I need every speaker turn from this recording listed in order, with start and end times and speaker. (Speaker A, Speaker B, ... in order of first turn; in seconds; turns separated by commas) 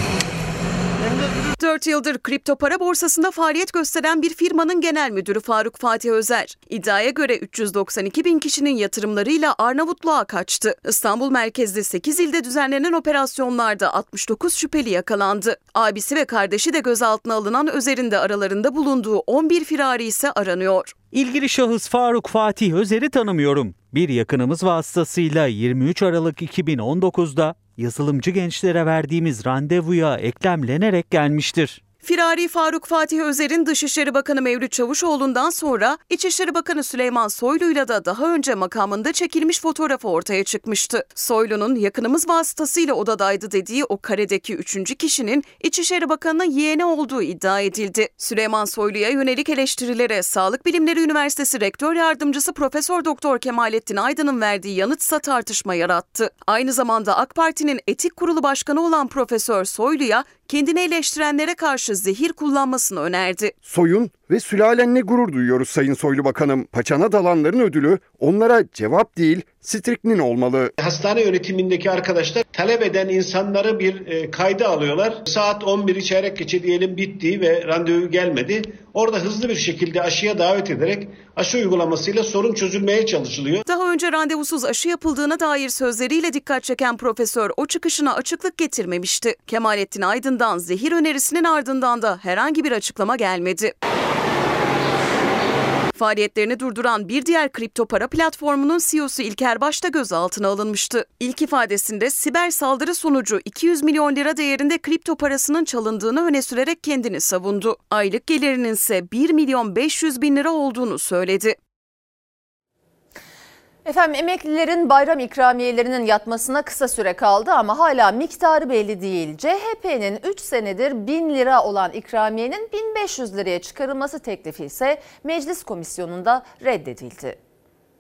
Speaker A: 1.6-20.9, Speaker B: 21.1-31.8, Speaker A: 32.0-63.5, Speaker C: 63.6-70.7, Speaker D: 70.8-83.6, Speaker A: 83.7-93.7, Speaker A: 95.9-111.6, Speaker E: 113.8-127.4